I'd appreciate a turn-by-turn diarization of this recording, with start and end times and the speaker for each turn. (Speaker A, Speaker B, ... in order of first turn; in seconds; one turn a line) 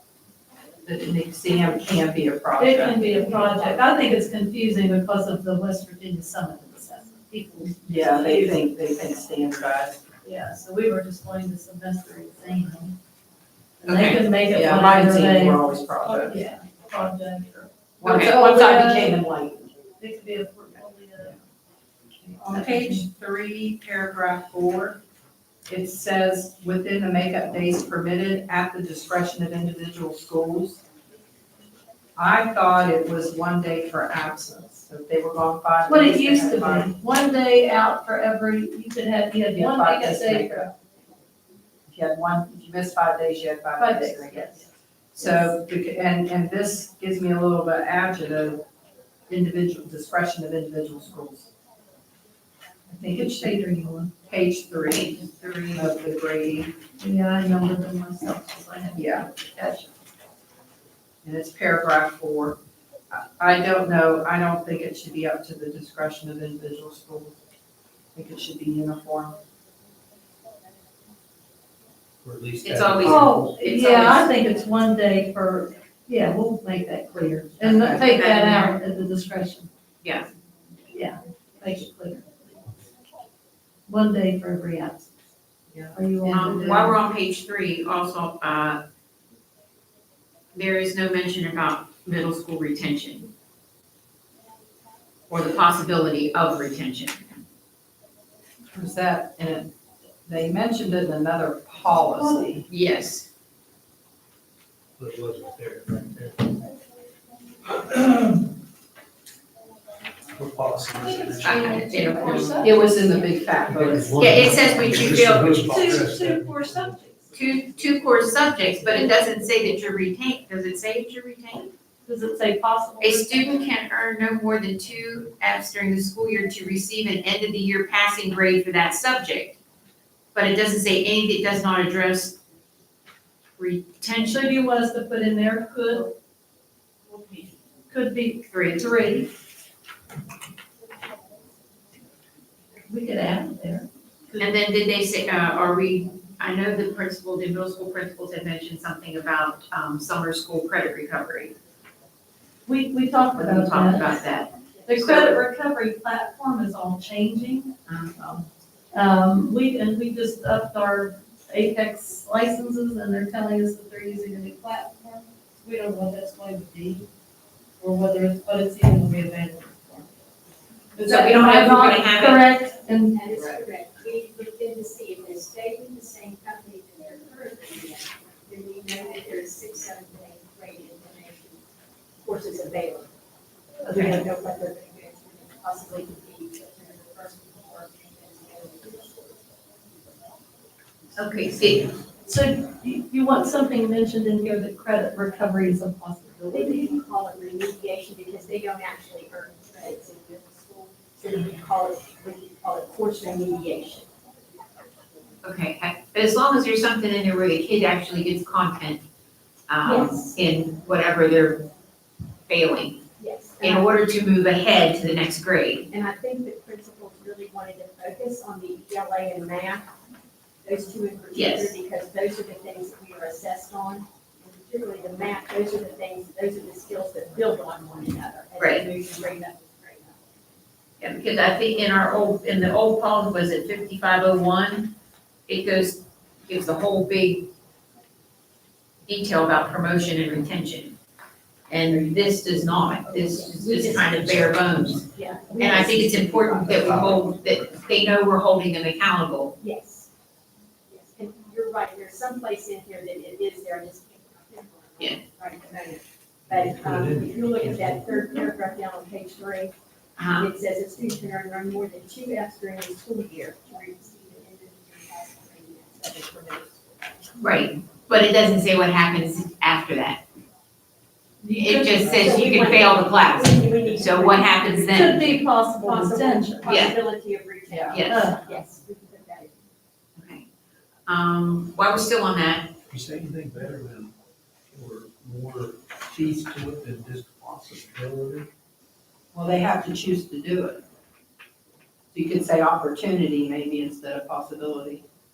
Speaker A: 0.8-3.0
Speaker B: 2.6-8.6
Speaker A: 7.8-10.0
Speaker B: 10.2-12.9
Speaker B: 13.8-19.2
Speaker C: 13.8-14.2
Speaker A: 14.5-16.4
Speaker C: 18.0-18.4
Speaker A: 18.0-19.7
Speaker B: 20.0-21.4
Speaker B: 22.2-23.0
Speaker A: 22.4-25.0
Speaker A: 25.7-30.8
Speaker A: 32.1-36.9
Speaker B: 35.9-40.6
Speaker A: 39.5-40.7
Speaker A: 41.9-48.6
Speaker B: 43.8-44.6
Speaker A: 49.3-51.5
Speaker A: 52.9-53.6
Speaker B: 53.1-54.1
Speaker A: 54.2-55.2
Speaker C: 54.8-55.9
Speaker A: 55.7-56.7
Speaker B: 57.0-59.9
Speaker A: 58.9-59.3
Speaker A: 61.2-62.5
Speaker A: 63.1-67.4
Speaker A: 68.1-69.4
Speaker D: 72.2-74.1
Speaker C: 72.6-74.3
Speaker B: 73.0-79.7
Speaker A: 77.6-78.0
Speaker C: 78.0-78.8
Speaker C: 80.0-80.3
Speaker B: 80.9-82.8
Speaker B: 83.9-85.1
Speaker A: 85.7-86.8
Speaker B: 85.9-87.0
Speaker C: 86.2-88.8
Speaker C: 90.5-93.3
Speaker C: 95.3-97.2
Speaker A: 98.7-99.7
Speaker A: 100.2-102.7
Speaker B: 102.1-102.5
Speaker C: 102.7-103.3
Speaker D: 105.0-106.6
Speaker D: 107.8-108.4
Speaker D: 110.3-111.9
Speaker B: 111.0-113.1
Speaker C: 111.4-112.8
Speaker A: 112.6-114.4
Speaker D: 113.7-117.0
Speaker C: 114.1-116.0
Speaker B: 115.7-117.3
Speaker C: 117.3-121.7
Speaker B: 122.0-123.7
Speaker C: 123.0-129.6
Speaker C: 130.3-132.4
Speaker C: 133.6-134.4
Speaker B: 134.2-136.1
Speaker B: 137.1-139.3
Speaker C: 138.5-138.9
Speaker B: 142.8-144.5
Speaker C: 144.4-151.5
Speaker B: 152.6-154.1
Speaker C: 153.3-155.3
Speaker B: 154.8-157.7
Speaker C: 157.9-158.5
Speaker B: 158.9-167.1
Speaker B: 167.8-170.1
Speaker C: 170.9-172.4
Speaker B: 170.9-173.2
Speaker E: 172.9-181.6
Speaker E: 182.2-183.1
Speaker C: 183.9-184.2
Speaker E: 183.9-189.4
Speaker C: 191.2-191.9
Speaker B: 192.2-196.9
Speaker E: 196.5-204.1
Speaker C: 205.4-209.0
Speaker C: 209.7-211.7
Speaker E: 209.8-210.3
Speaker C: 212.5-213.0
Speaker E: 213.2-213.9
Speaker C: 213.6-215.9
Speaker E: 215.9-219.9
Speaker E: 220.6-230.4
Speaker C: 221.3-221.8
Speaker C: 228.6-228.8
Speaker C: 231.0-234.9
Speaker C: 235.5-237.5
Speaker C: 239.0-240.9
Speaker C: 241.7-249.5
Speaker E: 243.1-244.2
Speaker E: 245.1-246.9
Speaker D: 246.8-247.1
Speaker E: 249.6-250.1
Speaker E: 250.9-259.7
Speaker D: 256.5-258.2
Speaker C: 260.2-260.5
Speaker E: 260.4-267.3
Speaker C: 267.4-270.2
Speaker B: 271.4-272.3
Speaker C: 271.6-275.3
Speaker E: 272.1-279.6
Speaker B: 274.9-276.9
Speaker C: 276.6-276.9
Speaker A: 277.7-278.0
Speaker C: 277.9-278.3
Speaker B: 278.1-278.5
Speaker C: 280.1-280.4
Speaker C: 281.1-282.7
Speaker D: 282.9-284.1
Speaker D: 284.7-288.5
Speaker A: 289.3-290.8
Speaker A: 292.1-295.0